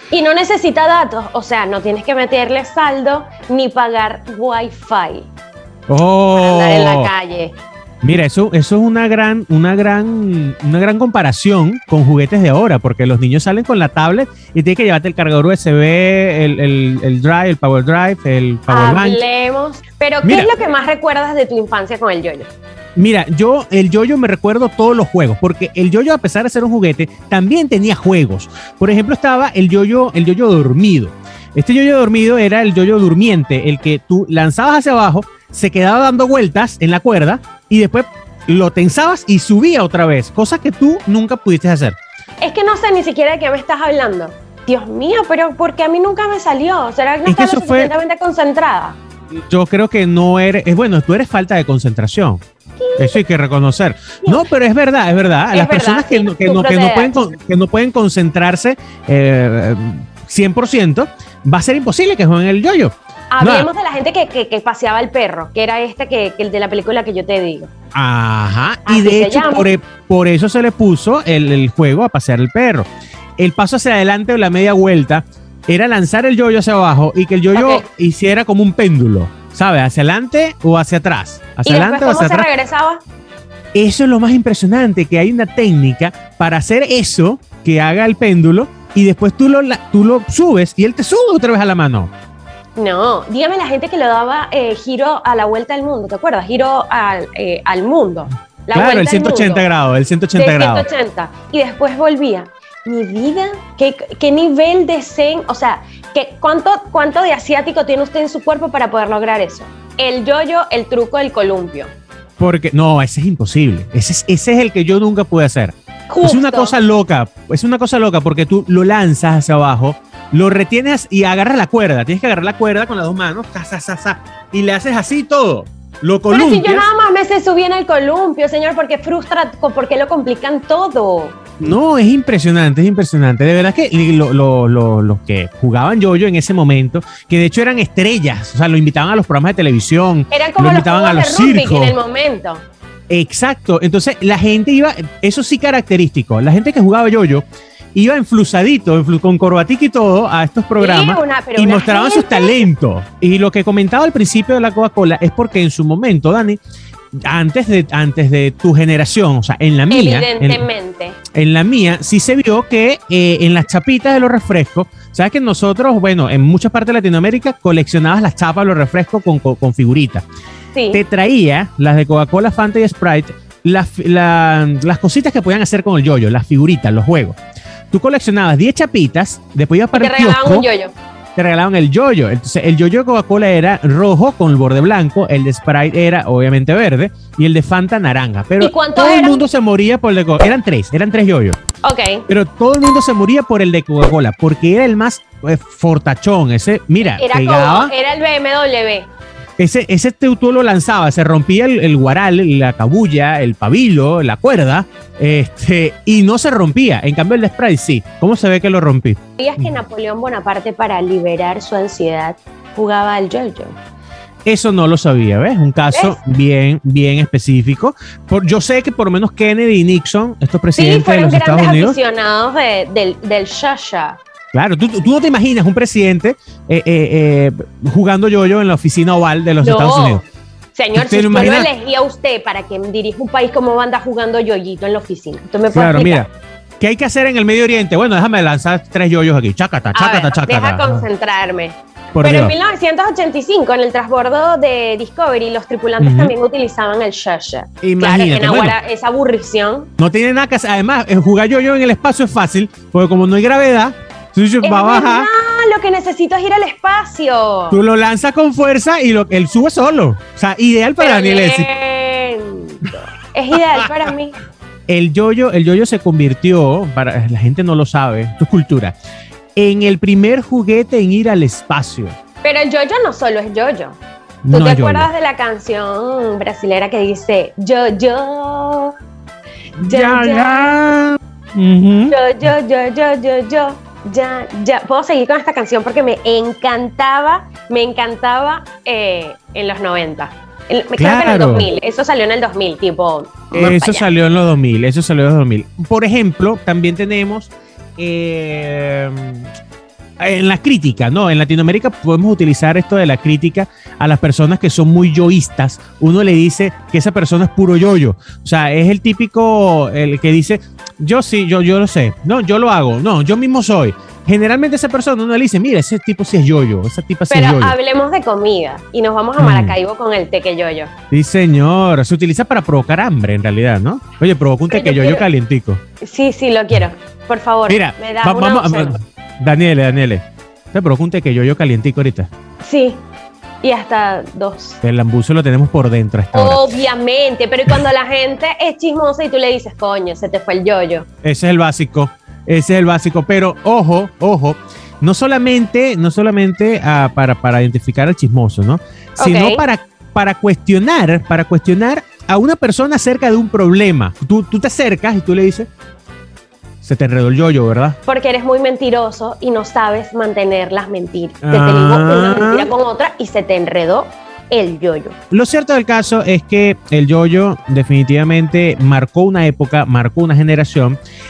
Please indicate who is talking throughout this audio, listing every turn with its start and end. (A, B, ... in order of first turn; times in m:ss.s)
0:00.1-0:05.3 A
0:05.9-0:07.1 B
0:06.3-0:07.6 A
0:08.0-0:19.2 B
0:18.7-0:22.5 A
0:20.2-0:20.5 B
0:23.0-0:42.0 B
0:42.4-0:49.0 A
0:47.3-0:47.9 B
0:49.3-0:52.4 B
0:52.8-0:53.2 A
0:53.0-1:03.7 B
0:55.5-0:57.3 A
1:03.3-1:07.7 A
1:08.0-1:12.9 B
1:08.9-1:09.8 A
1:13.4-1:22.5 B
1:17.5-1:17.8 A
1:21.7-1:23.0 A
1:23.8-1:32.1 B
1:32.8-1:39.7 A
1:38.7-1:40.9 B
1:40.3-1:51.9 A
1:52.4-2:06.9 B
1:56.1-1:56.8 A
2:06.3-2:11.4 A
2:11.6-2:22.0 B
2:20.3-2:22.6 A
2:23.1-2:36.6 B
2:30.8-2:32.6 A
2:37.2-2:40.7 B
2:39.9-2:41.2 A
2:41.3-2:50.2 B
2:50.7-2:51.0 A
2:50.9-2:57.4 B
2:57.9-3:00.7 B
2:59.9-3:00.9 A
3:01.4-3:11.6 B
3:08.6-3:09.5 A
3:11.8-3:12.3 A
3:12.3-3:17.9 B
3:17.0-3:19.1 A
3:19.6-3:29.7 B
3:29.4-3:33.8 A
3:34.4-3:42.0 B
3:35.9-3:36.2 A
3:40.8-3:44.2 A
3:44.5-3:50.2 B
3:49.6-3:50.2 A
3:50.8-3:56.3 A
3:50.9-3:51.7 B
3:55.7-3:56.3 B
3:56.8-4:01.0 B
3:59.9-4:09.9 A
4:02.2-4:02.5 B
4:06.0-4:06.3 B
4:07.8-4:08.8 B
4:10.0-4:15.3 B
4:14.6-4:17.8 A
4:17.7-4:21.7 B
4:21.0-4:24.4 A
4:24.9-4:29.0 B
4:29.6-4:32.2 B
4:32.4-4:34.0 A
4:34.4-4:35.1 B
4:34.5-4:39.0 A
4:39.8-4:42.2 B
4:39.8-4:40.8 A
4:42.1-4:54.1 A
4:51.0-4:51.7 B
4:53.5-4:59.5 B
5:00.2-5:17.8 B
5:17.3-5:20.9 A
5:19.4-5:19.8 B
5:21.1-5:25.8 B
5:24.7-5:25.3 A
5:26.0-5:29.0 A
5:27.7-5:32.3 B
5:32.6-5:33.0 A
5:33.6-5:34.8 A
5:34.8-5:36.8 B
5:36.3-5:41.1 A
5:41.2-5:55.7 B
5:49.2-5:49.6 A
5:56.8-5:58.0 B
5:58.1-6:05.2 A
6:01.4-6:02.7 B
6:05.3-6:11.0 B